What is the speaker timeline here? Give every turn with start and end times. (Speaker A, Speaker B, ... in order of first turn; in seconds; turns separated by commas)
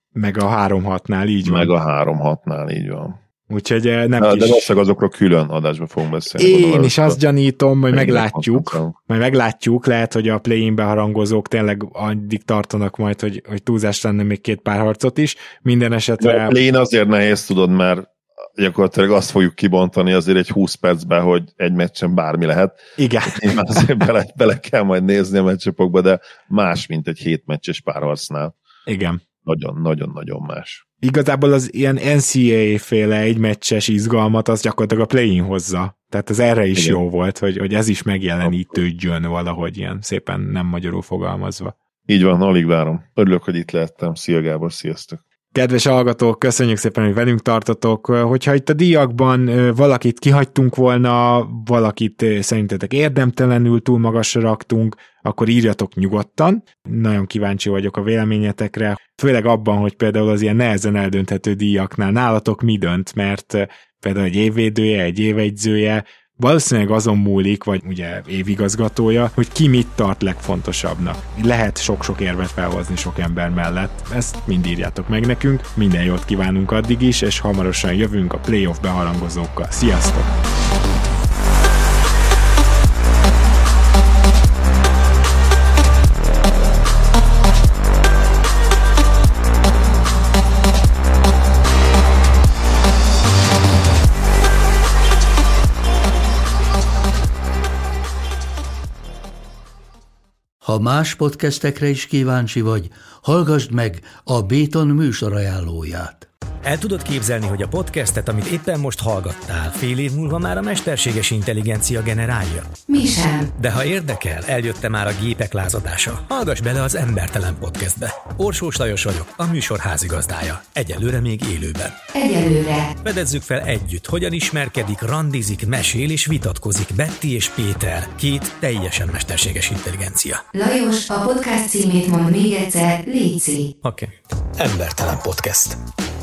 Speaker A: 0.1-1.7, Speaker B: 1.4-3.2, Speaker A: 3.5-4.7, Speaker B: 4.2-7.2, Speaker A: 6.4-16.6, Speaker B: 7.9-8.9, Speaker B: 16.2-28.6, Speaker A: 23.0-23.8, Speaker A: 28.9-29.2, Speaker B: 29.4-30.8, Speaker A: 31.0-41.7, Speaker B: 36.8-37.0, Speaker B: 38.4-38.8, Speaker B: 42.1-45.2, Speaker A: 45.5-80.3, Speaker C: 100.6-106.3, Speaker D: 106.7-112.7, Speaker E: 112.9-113.5, Speaker D: 113.6-122.0, Speaker E: 122.1-122.9, Speaker D: 123.0-130.4, Speaker E: 130.5-133.7, Speaker D: 133.8-135.8